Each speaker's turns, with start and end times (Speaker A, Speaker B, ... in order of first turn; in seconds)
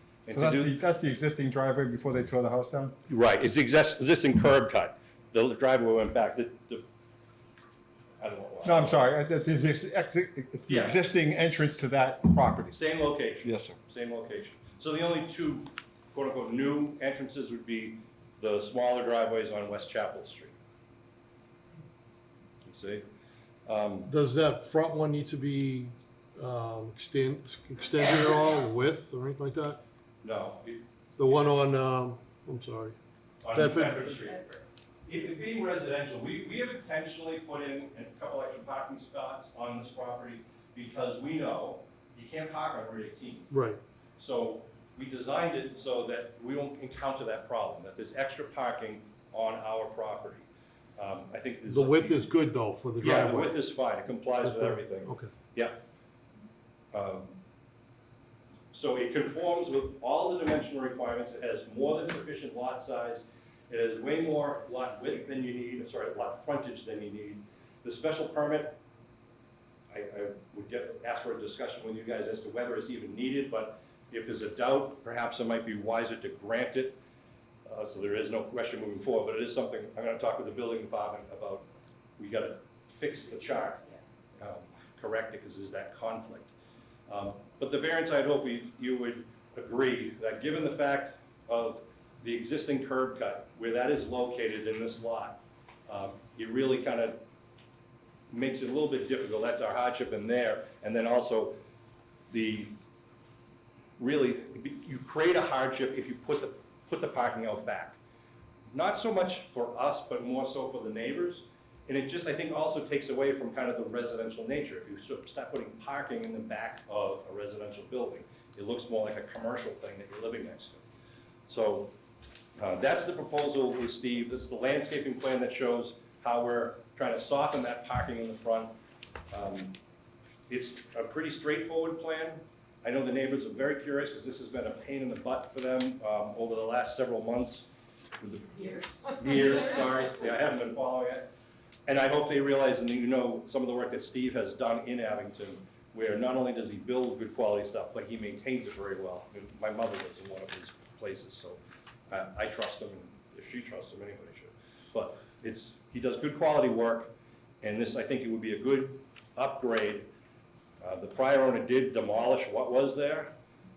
Speaker A: 0.2-0.8, 3.1-6.8, 8.2-9.0, 10.7-11.0, 12.7-20.5, 22.6-23.1, 23.6-24.1, 30.2-31.4, 33.4-43.5, 44.2-52.2, 53.0-55.8, 56.9-57.4, 58.7-68.8, 69.9-77.0, 77.7-81.7, 82.2-83.8, 84.4-86.5, 87.1-97.2, 98.3-101.6, 102.3-102.8, 104.0-108.0, 108.7-120.8, 121.5-121.9, 122.6-128.8, 129.3-129.8, 130.5-141.3, 141.9-160.1, 160.8-163.3
Speaker B: 0.3-2.9, 8.6-12.8, 13.4-13.7
Speaker C: 24.0-29.8, 31.2-32.9, 33.5-34.1, 43.5-43.8, 51.7-53.6, 54.4-55.3